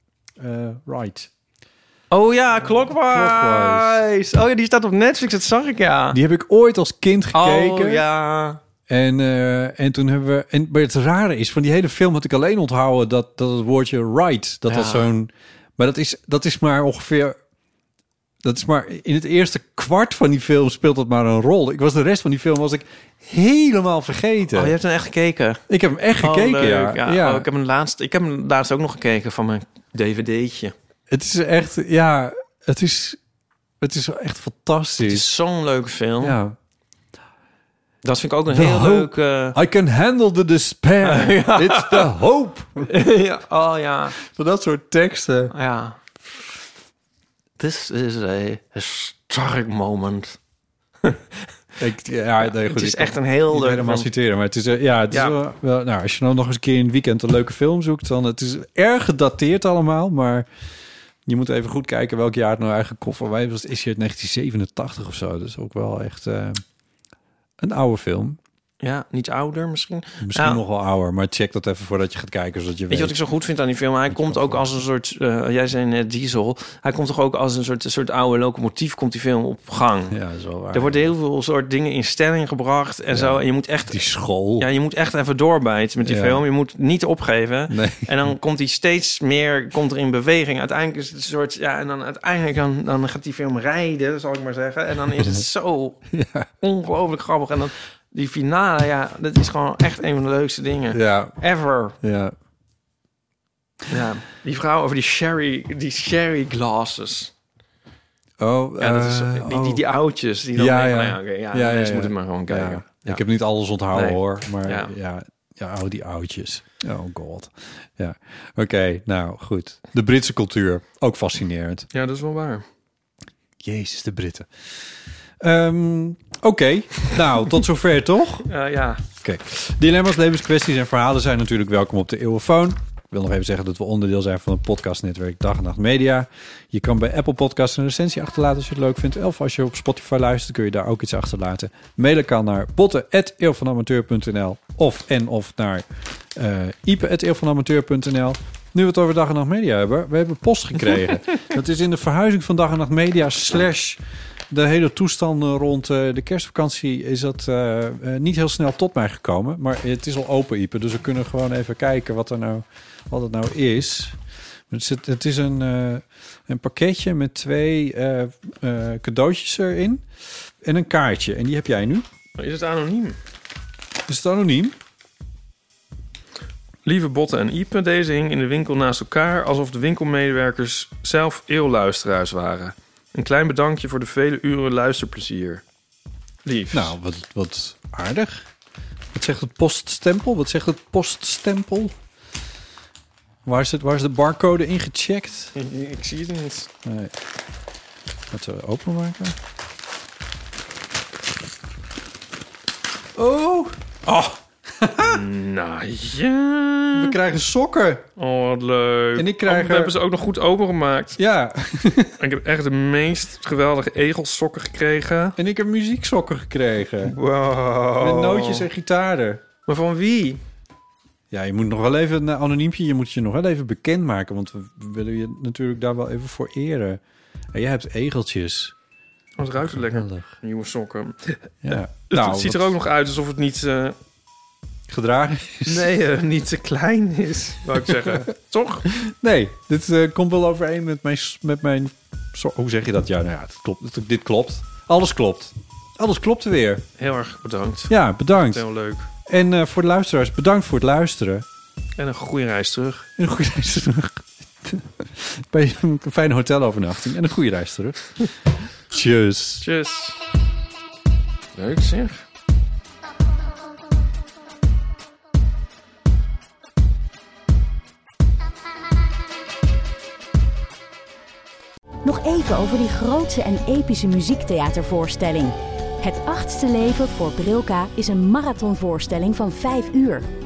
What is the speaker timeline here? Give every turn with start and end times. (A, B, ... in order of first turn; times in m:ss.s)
0:00.4-0:01.3 A
0:02.1-0:06.2 B
0:02.7-0:04.0 A
0:06.1-0:08.0 A
0:07.3-0:08.6 B
0:08.9-0:17.4 A
0:14.7-0:15.1 B
0:18.4-0:24.7 A
0:24.5-0:25.6 B
0:25.7-0:27.5 A
0:26.2-0:30.7 B
0:31.1-0:33.2 A
0:33.8-0:35.3 A
0:35.0-0:36.4 B
0:36.2-0:36.6 A
0:38.0-0:39.6 B
0:38.5-0:42.9 A
0:41.0-0:42.1 B
0:42.8-0:44.2 B
0:44.2-0:45.5 A
0:45.5-0:46.0 B
0:47.6-0:50.4 B
0:51.8-1:00.5 A
0:52.4-0:54.1 B
0:55.1-0:55.4 B
1:01.3-1:06.6 A
1:07.6-1:08.4 A
1:08.8-1:10.6 B
1:10.2-1:13.2 A
1:12.9-1:20.2 B
1:14.1-1:14.8 A
1:20.1-1:21.1 A
1:20.7-1:24.0 B
1:23.1-1:24.7 A
1:24.6-1:36.0 B
1:26.0-1:26.4 A
1:27.7-1:28.3 A
1:36.1-1:36.5 A
1:36.6-1:42.0 B
1:40.9-1:41.4 A
1:42.0-1:42.4 A
1:43.9-1:47.3 B
1:48.4-1:49.8 A
1:48.8-1:53.2 B
1:50.6-2:01.9 A
1:53.9-1:54.9 B
2:01.9-2:02.6 B
2:03.6-2:04.5 A
2:05.4-2:08.5 A
2:08.5-2:09.0 B
2:09.2-2:44.2 A
2:44.7-2:50.0 A
2:50.6-2:52.0 A
2:52.4-2:53.2 B
2:54.1-2:54.8 A
2:56.8-3:05.6 B
3:06.5-3:07.0 B
3:06.7-3:08.5 A
3:09.1-3:12.0 A
3:13.4-3:15.6 A
3:15.6-3:16.7 B
3:16.8-3:17.1 A
3:18.3-3:19.4 A
3:23.2-3:25.2 A
3:25.0-3:27.2 B
3:26.9-3:28.1 A
3:28.2-3:31.2 B
3:29.2-3:30.0 A
3:31.2-3:32.2 A
3:32.2-3:35.4 B
3:35.4-3:37.2 A
3:37.0-3:38.7 B
3:38.0-3:39.4 A
3:39.7-3:40.4 B
3:41.3-3:47.0 A
3:47.5-3:48.8 A
3:49.4-3:54.0 B
3:49.6-3:50.3 A
3:51.6-3:52.8 A
3:54.9-3:55.9 A
3:55.7-3:58.9 B
3:58.9-4:06.9 A
4:07.0-4:09.1 B
4:07.9-4:08.6 A
4:09.2-4:11.5 A
4:12.0-4:13.1 B
4:13.2-4:18.3 A
4:18.9-4:19.7 A
4:19.6-4:20.2 B
4:21.6-4:22.2 B
4:32.0-4:40.3 C